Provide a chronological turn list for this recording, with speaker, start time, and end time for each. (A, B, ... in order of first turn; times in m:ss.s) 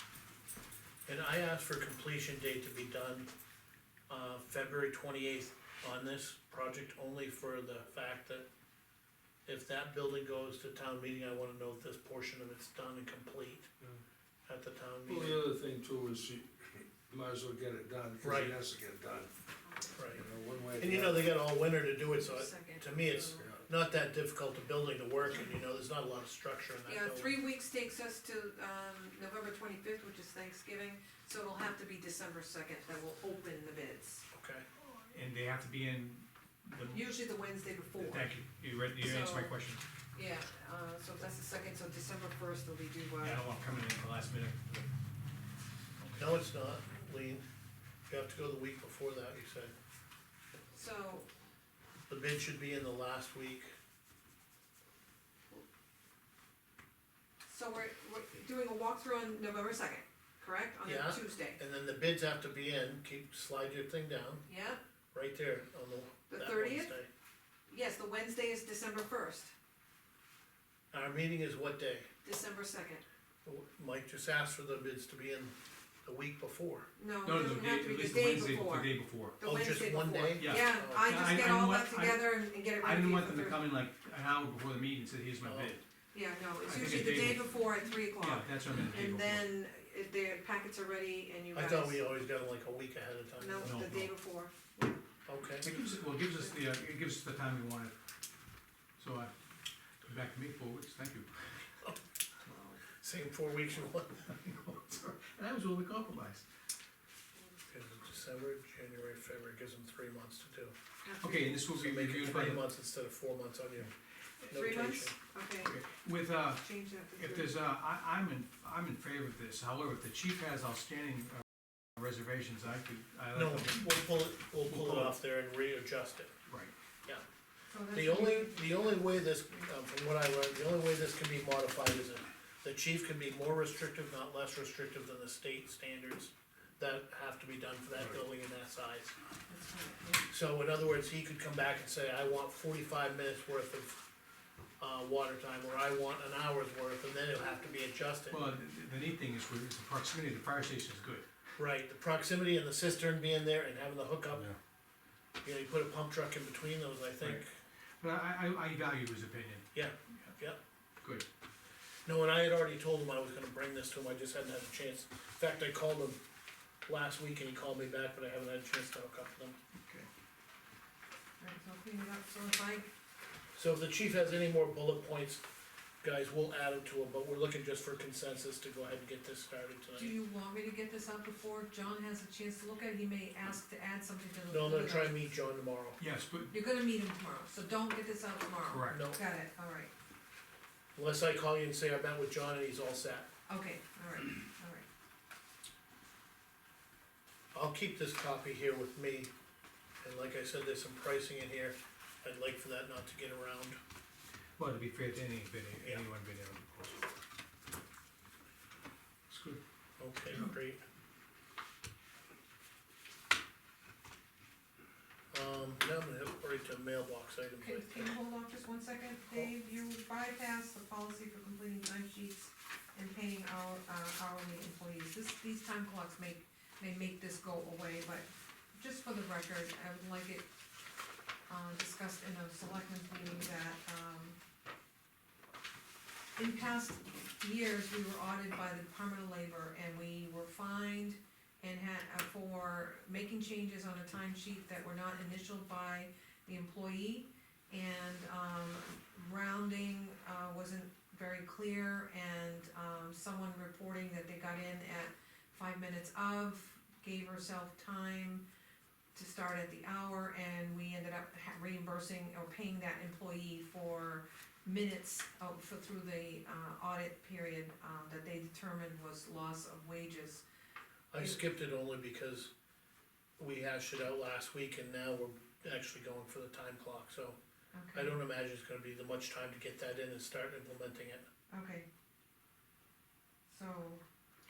0:01.0-0:03.3 A
0:04.1-0:08.4 A
0:09.5-0:13.7 A
0:14.5-0:15.4 A
0:15.1-0:19.3 B
0:18.2-0:18.5 A
0:19.7-0:20.1 C
0:20.0-0:20.2 A
0:20.2-0:21.4 B
0:20.8-0:27.3 A
0:22.0-0:23.5 C
0:23.2-0:23.6 B
0:26.8-0:34.2 C
0:34.3-0:34.6 A
0:34.8-0:37.0 D
0:36.9-0:38.3 C
0:38.0-0:39.8 D
0:39.0-0:39.5 C
0:40.1-0:43.4 C
0:43.2-0:44.9 D
0:46.0-0:46.3 D
0:46.2-0:47.4 A
0:48.1-0:49.7 A
0:50.7-0:51.3 C
0:52.1-0:53.7 A
0:57.4-1:01.6 C
1:00.8-1:04.4 A
1:04.4-1:04.8 C
1:05.1-1:07.1 A
1:06.3-1:06.9 C
1:07.7-1:09.5 C
1:10.9-1:12.1 A
1:12.2-1:13.0 C
1:13.4-1:15.5 A
1:16.0-1:16.9 A
1:17.0-1:23.6 C
1:17.2-1:19.4 D
1:19.4-1:21.0 A
1:20.4-1:25.8 D
1:25.4-1:25.8 A
1:26.1-1:32.0 C
1:26.6-1:27.5 D
1:28.2-1:29.5 D
1:31.5-1:33.8 A
1:33.4-1:35.0 C
1:33.6-1:34.1 D
1:35.2-1:35.7 A
1:35.6-1:37.9 D
1:39.0-1:39.3 D
1:40.0-1:41.3 D
1:42.5-1:42.8 C
1:43.0-1:44.2 A
1:44.2-1:46.4 D
1:47.7-1:50.7 A
1:51.0-1:51.6 C
1:51.2-1:52.6 D
1:51.7-1:53.9 A
1:54.5-1:55.1 A
1:54.5-1:55.8 C
1:55.6-1:56.6 D
1:56.6-1:57.6 C
1:57.2-2:01.4 D
2:02.0-2:03.9 D
2:03.3-2:06.3 A
2:04.7-2:05.1 D
2:06.5-2:06.7 D
2:07.7-2:09.0 C
2:07.9-2:19.2 A
2:19.5-2:20.2 C
2:20.3-2:24.0 A
2:24.8-2:28.5 A
2:28.3-2:31.2 D
2:31.6-2:34.5 A
2:35.4-2:37.5 A
2:38.0-2:40.3 D
2:39.7-2:40.6 A
2:42.1-2:46.2 A
2:46.8-2:49.6 A
2:51.4-2:52.9 C
2:53.5-2:55.4 A
2:56.0-3:00.2 A
2:59.9-3:05.2 C
3:04.5-3:06.0 A
3:06.0-3:06.5 D
3:06.5-3:09.9 C
3:08.7-3:09.0 D
3:08.9-3:09.2 A
3:10.9-3:13.3 A
3:13.5-3:14.8 C
3:17.5-3:19.3 A
3:20.0-3:23.8 A
3:24.6-3:27.1 D
3:29.3-3:29.6 D
3:30.0-3:30.8 A
3:35.3-3:38.1 A
3:37.6-3:50.5 C
3:51.5-3:54.4 C
3:56.4-4:18.4 C
4:19.2-4:30.4 C
4:31.1-4:32.5 A
4:33.4-4:37.4 A
4:37.7-4:38.2 C
4:37.9-4:41.2 A
4:41.5-4:41.8 C
4:43.5-4:44.0 C